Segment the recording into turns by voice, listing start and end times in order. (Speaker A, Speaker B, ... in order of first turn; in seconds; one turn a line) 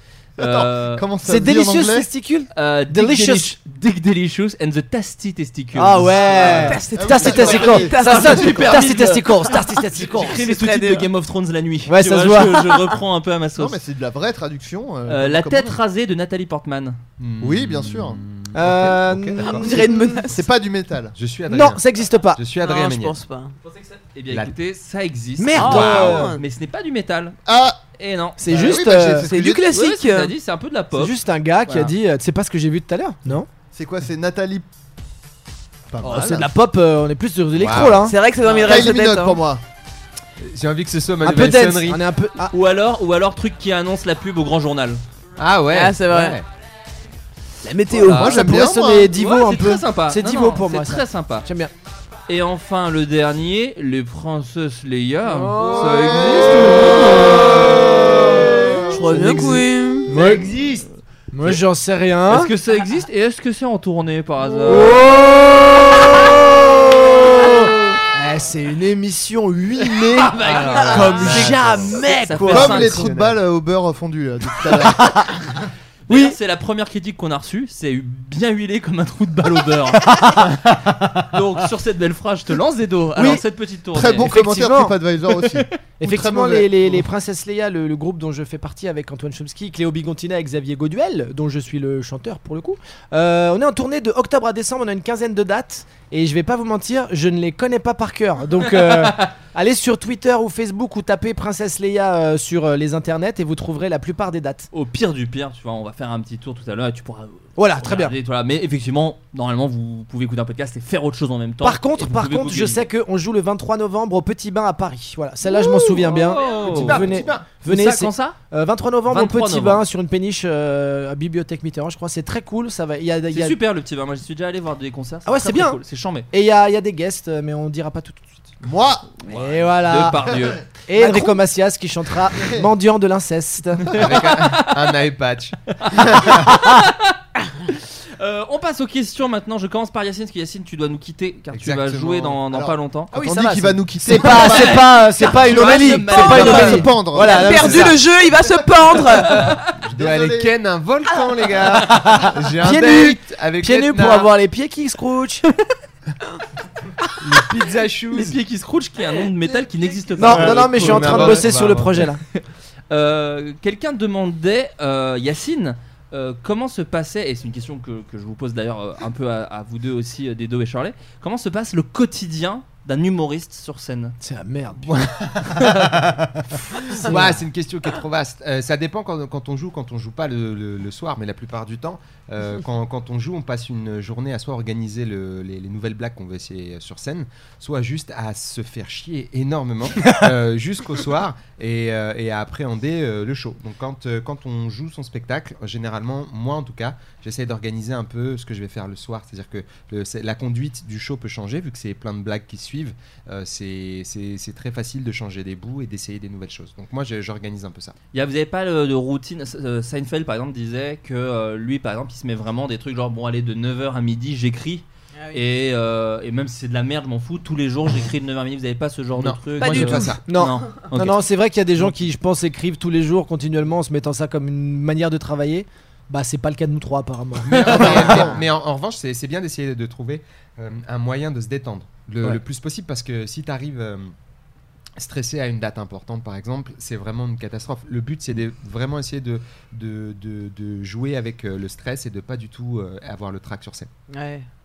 Speaker A: 0.4-1.1
Speaker B: 0.4-2.1
Speaker C: 1.2-3.5
Speaker A: 2.5-6.6
Speaker C: 5.8-10.4
Speaker B: 6.3-8.0
Speaker D: 6.4-8.9
Speaker A: 7.8-13.8
Speaker D: 10.1-11.1
Speaker C: 11.9-12.6
Speaker B: 13.6-15.8
Speaker A: 15.1-17.0
Speaker E: 17.2-19.8
Speaker B: 17.4-18.2
Speaker C: 18.5-20.2
Speaker D: 19.6-20.4
Speaker B: 20.3-21.1
Speaker E: 21.1-21.8
Speaker C: 21.5-22.4
Speaker E: 22.4-23.2
Speaker D: 22.6-23.6
Speaker A: 23.7-27.4
Speaker E: 24.3-24.6
Speaker C: 25.4-26.3
Speaker D: 25.6-26.4
Speaker E: 25.6-26.3
Speaker B: 27.5-27.8
Speaker A: 28.0-28.4
Speaker C: 28.4-29.3
Speaker B: 28.4-29.7
Speaker D: 29.2-30.3
Speaker A: 29.7-31.2
Speaker C: 30.9-33.5
Speaker A: 31.7-31.9
Speaker B: 33.7-34.7
Speaker B: 35.9-36.4
Speaker C: 36.0-38.2
Speaker E: 37.6-38.0
Speaker D: 38.0-39.4
Speaker B: 38.6-39.6
Speaker E: 40.4-42.0
Speaker C: 41.2-42.5
Speaker A: 42.5-45.0
Speaker E: 45.4-46.5
Speaker D: 45.7-46.4
Speaker D: 47.6-48.5
Speaker B: 48.1-49.1
Speaker C: 48.1-51.7
Speaker A: 49.1-51.5
Speaker A: 52.3-57.9
Speaker C: 55.3-57.3
Speaker B: 55.7-58.9
Speaker C: 58.0-60.8
Speaker D: 58.9-60.1
Speaker C: 61.3-62.5
Speaker A: 62.3-65.0
Speaker C: 64.7-73.3
Speaker A: 70.0-73.1
Speaker E: 70.5-72.0
Speaker B: 72.5-75.3
Speaker C: 74.9-75.3
Speaker A: 76.1-80.7
Speaker C: 76.1-76.4
Speaker A: 81.2-84.3
Speaker C: 83.2-83.4
Speaker B: 83.9-87.0
Speaker C: 84.2-85.0
Speaker C: 86.0-104.7
Speaker A: 98.8-99.3
Speaker A: 104.7-112.8
Speaker C: 107.6-108.2
Speaker C: 111.6-123.6
Speaker E: 115.5-117.5
Speaker A: 115.9-118.4
Speaker A: 119.1-119.8
Speaker A: 123.3-126.3
Speaker C: 125.3-125.8
Speaker C: 126.3-128.3
Speaker B: 128.6-129.1
Speaker A: 129.3-131.2
Speaker C: 129.3-130.3
Speaker C: 130.9-133.9
Speaker B: 132.3-132.7
Speaker E: 133.9-136.8
Speaker A: 133.9-135.0
Speaker A: 135.9-143.1
Speaker E: 141.5-142.4
Speaker B: 142.5-147.8
Speaker C: 143.1-148.0
Speaker A: 144.2-146.9
Speaker D: 146.3-149.5
Speaker E: 147.5-148.0
Speaker E: 149.1-154.3
Speaker B: 149.6-150.6
Speaker C: 151.9-155.7
Speaker E: 157.2-158.4
Speaker A: 158.1-161.5
Speaker C: 160.2-162.2
Speaker E: 160.2-162.1
Speaker A: 162.9-174.2
Speaker C: 174.2-174.9
Speaker E: 174.9-207.9
Speaker C: 177.0-177.4
Speaker A: 208.1-221.2
Speaker E: 219.2-220.2
Speaker D: 219.6-220.2
Speaker C: 220.3-228.3
Speaker E: 227.4-234.1
Speaker B: 227.7-228.4
Speaker E: 235.0-243.9
Speaker D: 244.1-244.5